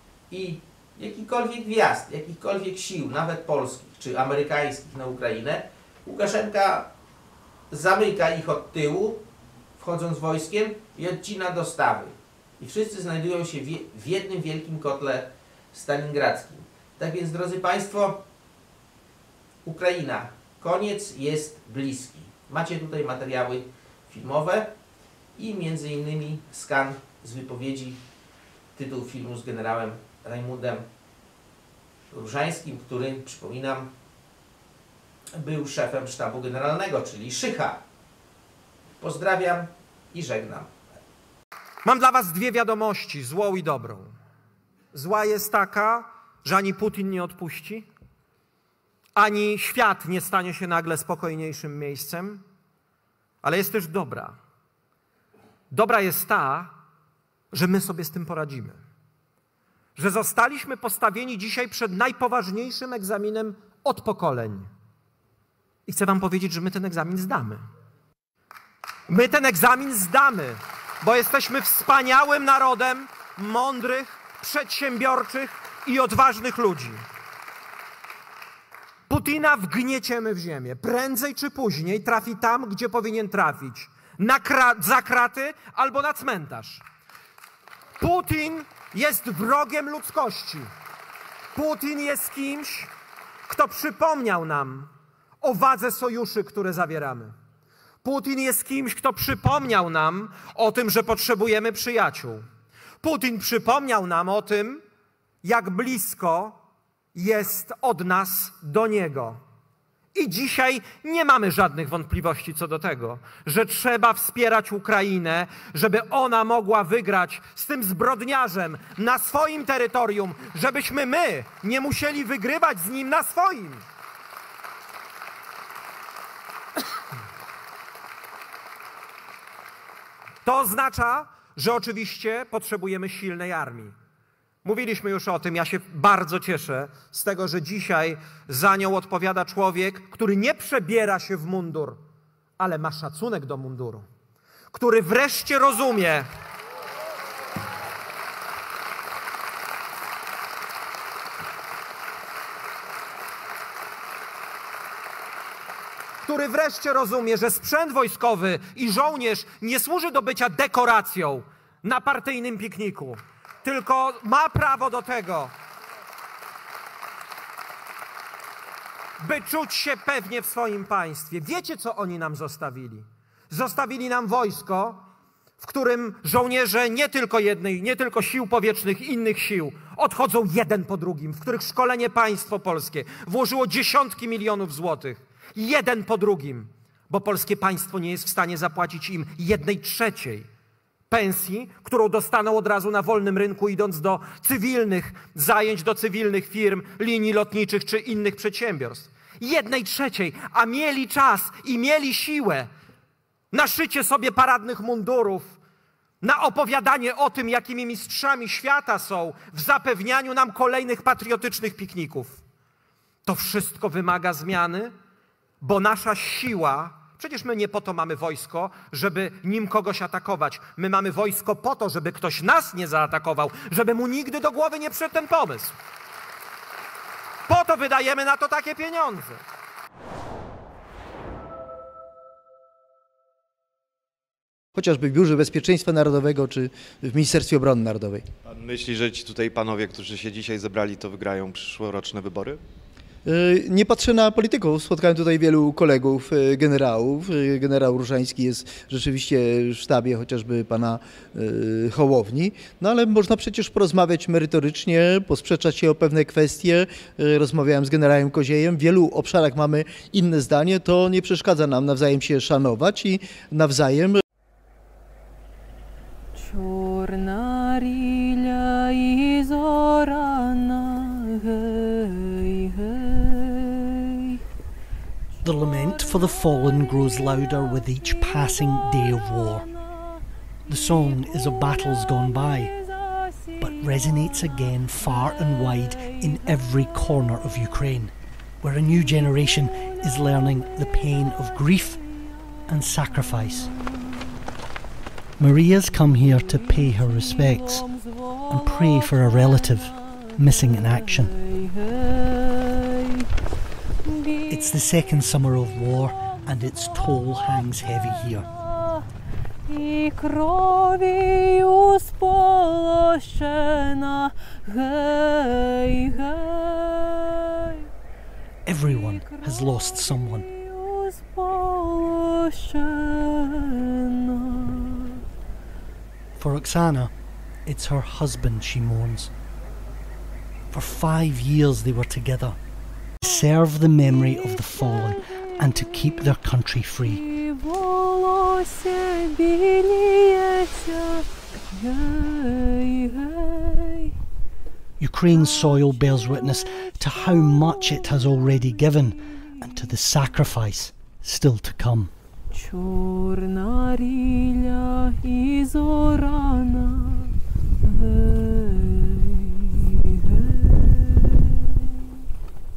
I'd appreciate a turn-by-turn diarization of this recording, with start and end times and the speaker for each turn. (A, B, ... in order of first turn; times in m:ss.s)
0:00.3-0:06.9 A
0:07.7-0:09.2 A
0:09.8-0:18.2 A
0:19.6-0:24.7 A
0:25.4-0:28.0 A
0:28.8-0:30.8 A
0:32.1-0:33.9 A
0:35.3-0:37.8 A
0:39.0-0:40.7 A
0:41.8-0:44.1 B
0:44.9-0:47.9 B
0:49.2-0:52.4 B
0:53.4-0:54.4 B
0:55.7-0:56.7 B
0:57.5-0:58.8 B
1:00.0-1:04.7 B
1:05.9-1:07.6 B
1:09.1-1:17.0 B
1:19.1-1:26.8 B
1:28.0-1:30.7 B
1:31.5-1:32.9 B
1:33.5-1:37.3 B
1:38.0-1:42.4 B
1:43.0-1:44.8 B
1:45.4-1:46.6 B
1:47.1-1:49.4 B
1:50.1-2:03.8 B
2:10.4-2:13.9 B
2:14.6-2:22.0 B
2:22.6-2:24.0 B
2:24.7-2:26.3 B
2:36.2-2:45.5 B
2:49.2-2:55.0 B
2:55.6-3:10.5 B
3:11.1-3:22.7 B
3:23.5-3:25.6 B
3:26.2-3:32.4 B
3:33.2-3:34.9 B
3:35.6-3:45.7 B
3:47.5-3:49.4 B
3:54.8-3:58.3 C
3:58.4-4:02.6 D
4:03.2-4:24.2 C
4:26.3-4:34.4 E
4:35.4-4:39.6 F
4:35.4-4:47.9 E
4:40.7-4:42.7 F
4:43.6-4:52.0 F
4:48.7-4:52.0 E
4:52.7-4:54.4 E
4:52.7-4:53.7 F
4:55.4-4:57.8 F
4:55.6-5:03.3 E
4:58.5-5:01.3 F
5:04.0-5:09.1 E
5:04.5-5:08.5 F
5:09.6-5:17.9 E
5:18.6-5:20.5 F
5:18.7-5:25.2 E
5:26.4-5:27.1 F
5:27.6-5:29.3 F
5:30.7-5:32.6 F
5:33.2-5:37.2 F
5:33.4-5:44.1 E
5:45.0-5:52.1 F
5:45.2-5:50.4 E
5:52.5-6:01.7 E